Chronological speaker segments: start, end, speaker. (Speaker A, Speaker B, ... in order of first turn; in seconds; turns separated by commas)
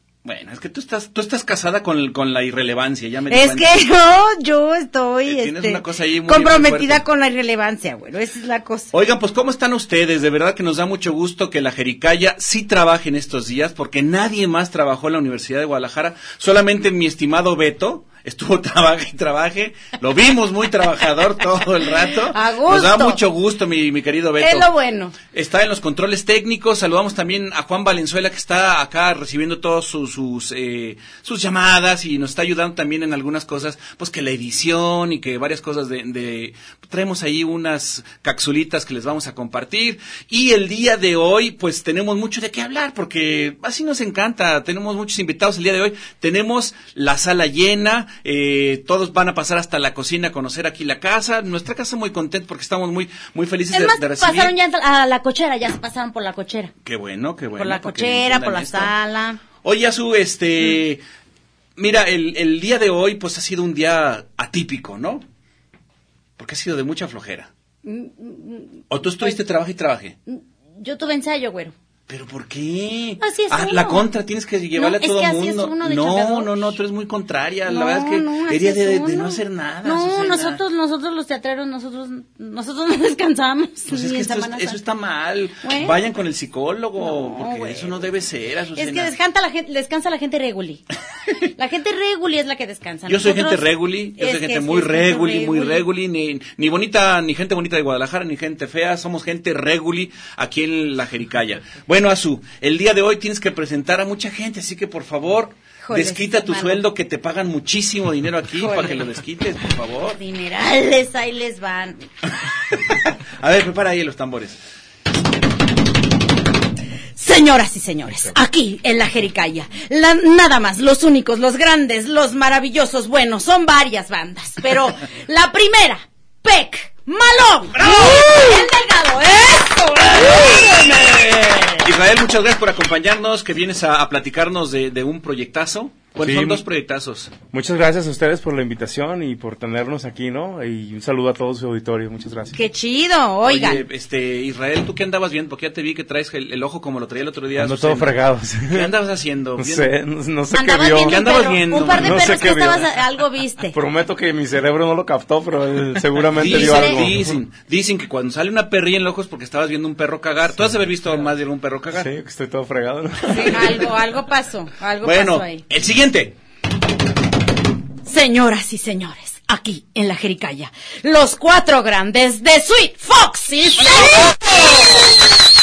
Speaker A: 0.2-3.8, Speaker B: 3.3-8.9, Speaker A: 5.2-7.0, Speaker A: 8.9-24.7, Speaker B: 22.2-23.2, Speaker B: 24.4-25.1, Speaker A: 25.3-54.5, Speaker B: 53.7-56.7, Speaker A: 56.8-58.9, Speaker B: 57.6-59.4, Speaker A: 59.6-61.0, Speaker A: 61.8-65.2, Speaker A: 66.4-67.5, Speaker B: 67.8-69.4, Speaker A: 68.9-70.2, Speaker B: 70.3-71.7, Speaker A: 72.1-80.6, Speaker B: 73.2-74.1, Speaker B: 74.7-76.8, Speaker B: 77.7-84.8, Speaker A: 83.9-89.1, Speaker B: 85.6-86.0, Speaker B: 87.0-87.9, Speaker B: 88.8-90.8, Speaker B: 91.5-95.8, Speaker A: 93.1-110.2, Speaker B: 105.8-106.8, Speaker B: 108.6-109.0, Speaker B: 110.1-112.0, Speaker A: 112.7-114.6, Speaker B: 117.2-131.8, Speaker A: 127.8-128.6, Speaker A: 130.1-137.3, Speaker C: 136.2-136.6, Speaker C: 137.5-142.6, Speaker B: 142.5-143.8, Speaker A: 143.4-149.9, Speaker C: 147.6-148.9, Speaker C: 149.6-152.9, Speaker B: 150.5-153.8, Speaker A: 151.0-152.3, Speaker C: 153.7-157.4, Speaker A: 156.3-162.1, Speaker B: 156.5-157.0, Speaker C: 161.9-163.8, Speaker B: 163.3-165.6, Speaker A: 165.0-166.3, Speaker B: 168.0-175.2